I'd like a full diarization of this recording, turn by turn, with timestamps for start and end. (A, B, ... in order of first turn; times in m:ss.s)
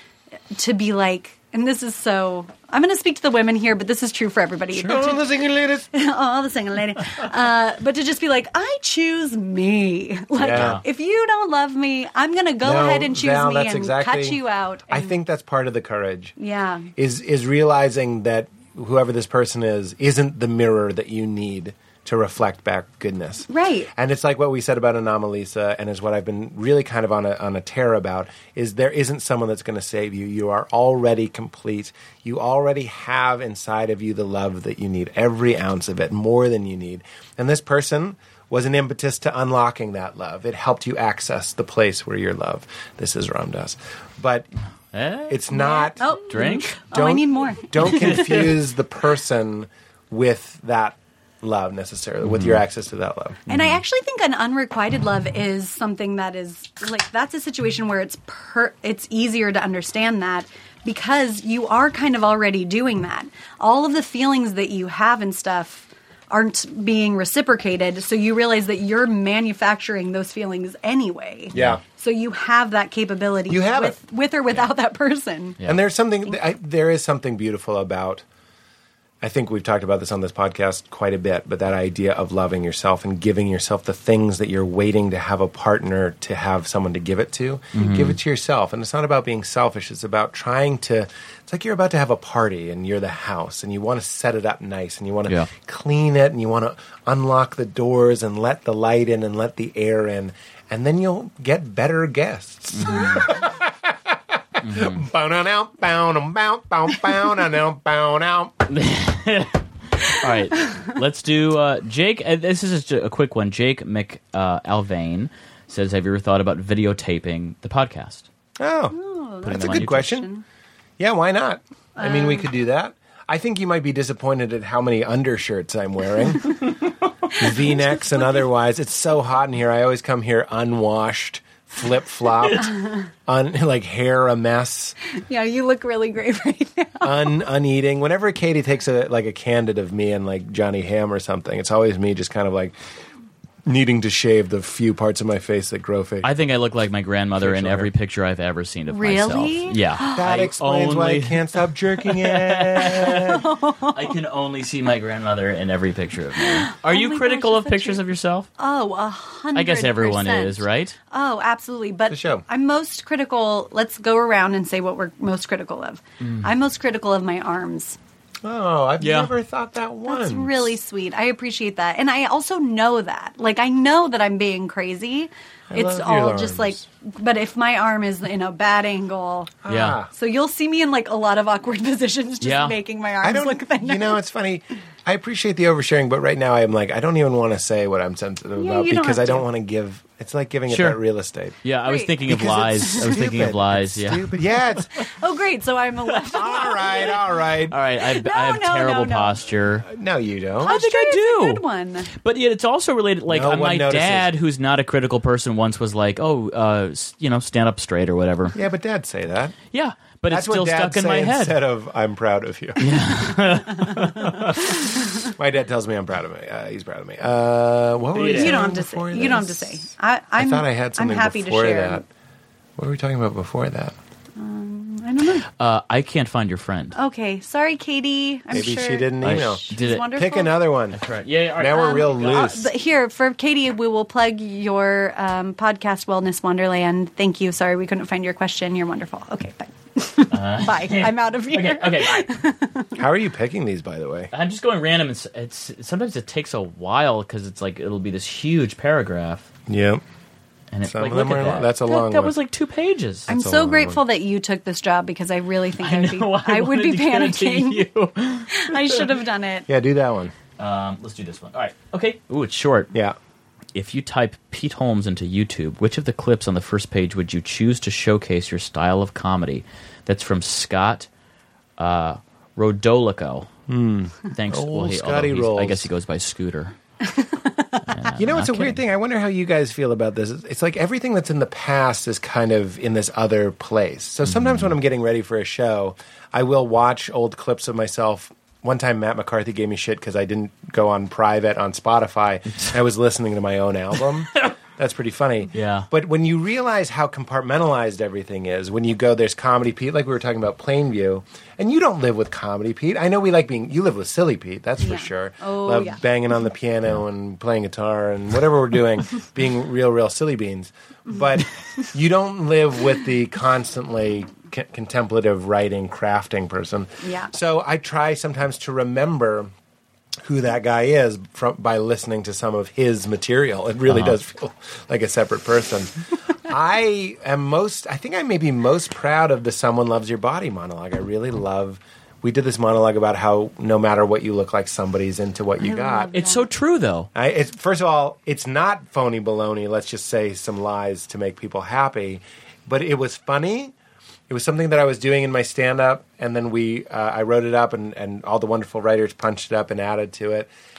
0:00.5-0:05.2 A
0:04.8-0:05.9 B
0:05.9-0:15.1 A
0:10.4-0:10.8 B
0:10.5-0:10.8 C
0:12.6-0:16.3 B
0:16.4-0:16.9 A
0:17.0-0:44.5 B
0:23.5-0:23.9 A
0:44.9-0:45.4 C
0:45.3-0:46.2 B
0:45.5-0:48.4 A
0:46.3-0:46.7 C
0:46.8-0:53.4 B
0:47.9-0:48.5 C
0:52.2-0:52.6 C
0:53.5-1:15.6 A
0:53.5-0:53.8 C
1:11.5-1:11.8 C
1:11.5-1:11.8 B
1:13.5-1:14.0 B
1:15.6-1:18.2 B
1:19.2-1:48.6 B
1:27.7-1:28.2 C
1:42.7-1:43.3 C
1:44.6-1:45.0 C
1:48.7-1:58.2 C
1:58.6-2:00.3 B
1:58.9-2:00.4 A
1:59.4-2:00.1 C
2:01.0-2:06.7 B
2:02.0-2:02.5 A
2:07.3-2:15.0 B
2:15.1-2:17.3 A
2:17.0-2:22.8 B
2:23.6-2:26.3 B
2:26.2-2:38.5 C
2:27.4-2:27.9 B
2:28.9-2:30.2 A
2:30.1-2:33.4 B
2:33.0-2:34.1 A
2:36.4-2:38.0 A
2:38.6-2:48.0 A
2:39.5-2:41.0 C
2:42.1-2:42.4 B
2:48.4-2:50.7 B
2:49.0-2:49.3 C
2:50.0-2:59.6 A
2:55.7-2:56.8 B
2:59.6-3:00.1 B
2:59.7-3:00.0 C
3:00.1-3:04.2 A
3:02.4-3:02.8 C
3:03.2-3:11.6 B
3:08.6-3:09.4 A
3:10.7-3:11.0 C
3:11.6-3:14.3 C
3:11.8-3:12.2 A
3:12.2-3:15.0 B
3:15.0-3:17.2 A
3:16.3-3:17.8 B
3:16.4-3:19.9 C
3:18.0-3:19.4 A
3:19.8-3:20.8 B
3:20.6-3:22.1 A
3:20.6-3:28.6 C
3:23.3-3:24.3 B
3:28.5-3:29.6 B
3:29.7-3:31.6 C
3:30.3-3:33.0 B
3:32.8-3:34.8 C
3:33.7-3:35.3 A
3:34.6-3:39.8 B
3:38.1-3:38.8 C
3:38.3-3:42.0 A
3:40.4-3:42.0 B
3:42.8-3:44.0 B
3:44.4-3:45.4 A
3:45.6-3:46.9 C
3:46.9-3:50.6 A
3:48.5-3:51.0 B
3:49.2-3:50.1 C
3:50.9-3:52.5 C
3:51.6-3:52.7 B
3:51.7-4:03.0 A
4:00.3-4:02.2 C
4:03.0-4:04.3 B
4:04.3-4:09.5 C
4:09.7-4:10.0 B
4:10.7-4:13.3 C
4:10.9-4:12.3 B
4:13.3-4:17.8 A
4:13.3-4:14.0 B
4:15.8-4:19.1 C
4:18.5-4:19.7 A
4:19.7-4:20.3 B
4:20.6-4:22.9 C
4:23.7-4:31.1 C
4:31.8-4:33.5 C
4:33.7-4:35.9 B
4:34.2-4:36.7 C
4:37.0-4:37.8 A
4:37.9-4:38.8 C
4:38.2-5:19.5 B
4:44.3-4:44.7 C
4:55.5-4:55.9 C
5:04.8-5:06.0 A
5:17.0-5:17.3 A
5:20.2-5:36.1 B
5:23.9-5:24.2 C
5:35.6-5:36.5 A
5:36.1-5:37.1 C
5:37.1-5:43.7 B
5:44.3-5:50.5 B